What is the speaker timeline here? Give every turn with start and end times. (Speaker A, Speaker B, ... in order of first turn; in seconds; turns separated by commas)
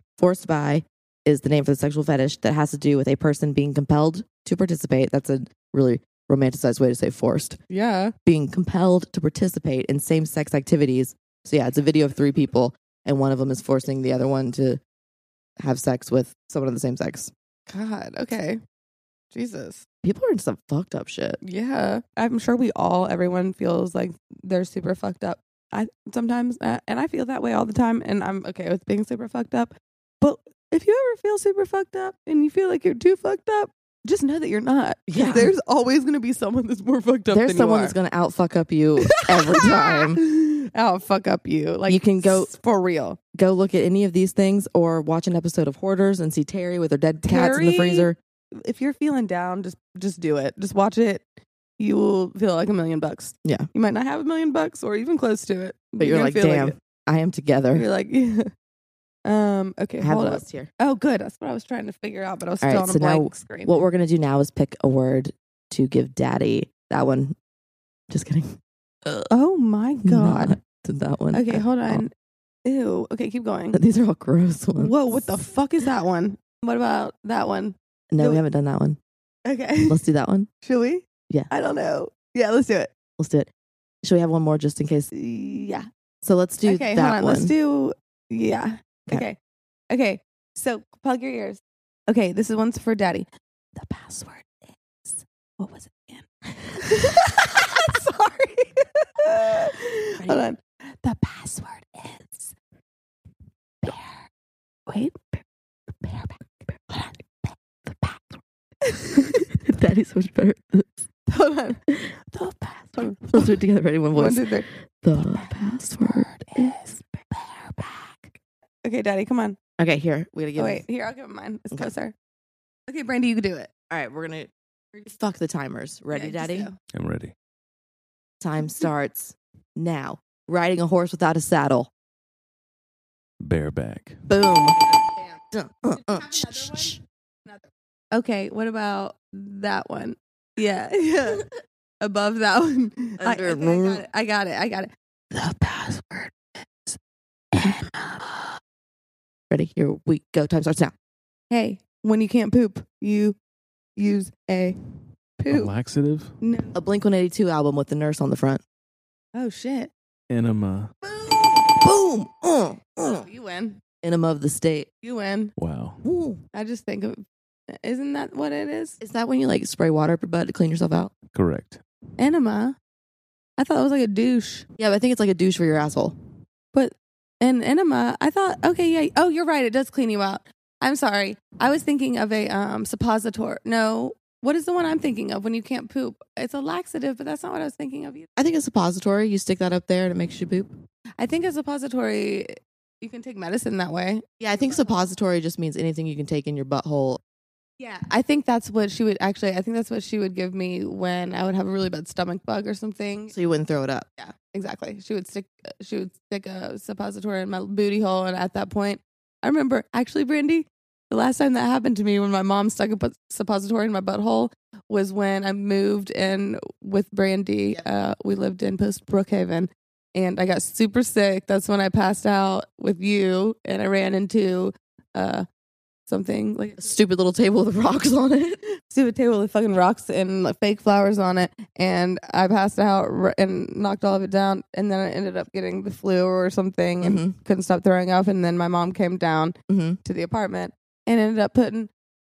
Speaker A: 0.2-7.6, Speaker B: 7.7-8.1, Speaker A: 8.3-14.8, Speaker A: 15.6-17.3, Speaker B: 17.7-18.6, Speaker B: 19.3-19.8, Speaker A: 20.0-21.4, Speaker B: 21.4-38.0, Speaker A: 35.1-35.5, Speaker A: 37.3-40.2, Speaker B: 39.0-43.2, Speaker A: 41.9-42.5, Speaker A: 43.3-48.2, Speaker B: 47.2-51.2, Speaker B: 51.8-56.8, Speaker A: 56.0-57.9, Speaker B: 57.7-58.5, Speaker B: 59.2-63.8, Speaker A: 60.0-60.7, Speaker A: 62.6-67.4, Speaker A: 68.1-69.3, Speaker B: 69.3-70.6, Speaker A: 70.0-72.1, Speaker B: 71.3-72.1, Speaker B: 72.7-73.8, Speaker A: 73.7-75.2, Speaker B: 74.8-78.4, Speaker A: 78.1-79.0, Speaker B: 79.5-80.0, Speaker A: 79.9-80.5, Speaker B: 80.6-82.9, Speaker A: 83.2-83.5, Speaker A: 84.0-85.1, Speaker B: 85.1-85.9, Speaker A: 86.2-87.5, Speaker B: 86.7-89.4, Speaker B: 89.9-102.5, Speaker A: 100.2-100.5, Speaker B: 103.8-104.2, Speaker B: 104.9-105.4, Speaker B: 106.0-106.4, Speaker B: 106.9-108.2, Speaker B: 108.8-109.4, Speaker A: 109.2-111.1, Speaker B: 111.3-113.5, Speaker A: 113.2-114.5, Speaker B: 114.1-115.5, Speaker A: 115.0-116.8, Speaker B: 116.0-118.2, Speaker B: 118.8-119.6, Speaker A: 119.8-120.8, Speaker B: 120.6-122.1, Speaker B: 122.9-123.7, Speaker A: 123.9-124.5, Speaker A: 125.1-126.7, Speaker B: 126.1-126.8, Speaker C: 126.9-127.3, Speaker A: 128.4-131.9, Speaker C: 133.4-134.3, Speaker A: 134.3-134.8, Speaker B: 135.1-135.4, Speaker A: 135.5-137.0, Speaker B: 136.0-141.5, Speaker B: 142.0-147.0, Speaker A: 143.2-144.1, Speaker B: 147.5-148.5, Speaker A: 149.5-150.9, Speaker B: 151.5-153.4, Speaker B: 154.0-154.8, Speaker B: 155.4-155.7, Speaker C: 155.5-156.3, Speaker B: 156.4-156.8, Speaker A: 156.7-158.6, Speaker B: 159.3-159.9, Speaker C: 160.3-160.9, Speaker B: 161.2-161.6, Speaker A: 161.3-163.2, Speaker B: 163.0-163.8, Speaker A: 164.0-164.9, Speaker B: 165.0-165.5, Speaker C: 165.6-166.0, Speaker A: 166.0-166.4, Speaker B: 166.5-169.0, Speaker A: 169.0-171.1, Speaker C: 171.3-171.8, Speaker B: 172.2-172.8, Speaker B: 173.6-174.7, Speaker A: 174.8-176.2, Speaker B: 176.7-188.3, Speaker A: 188.4-190.7, Speaker B: 191.2-195.0, Speaker A: 194.4-197.2, Speaker B: 197.8-203.3, Speaker A: 203.3-204.1, Speaker B: 204.2-225.5, Speaker B: 226.1-226.9, Speaker A: 226.8-228.6, Speaker B: 228.9-241.9, Speaker A: 237.0-237.4, Speaker A: 239.7-240.0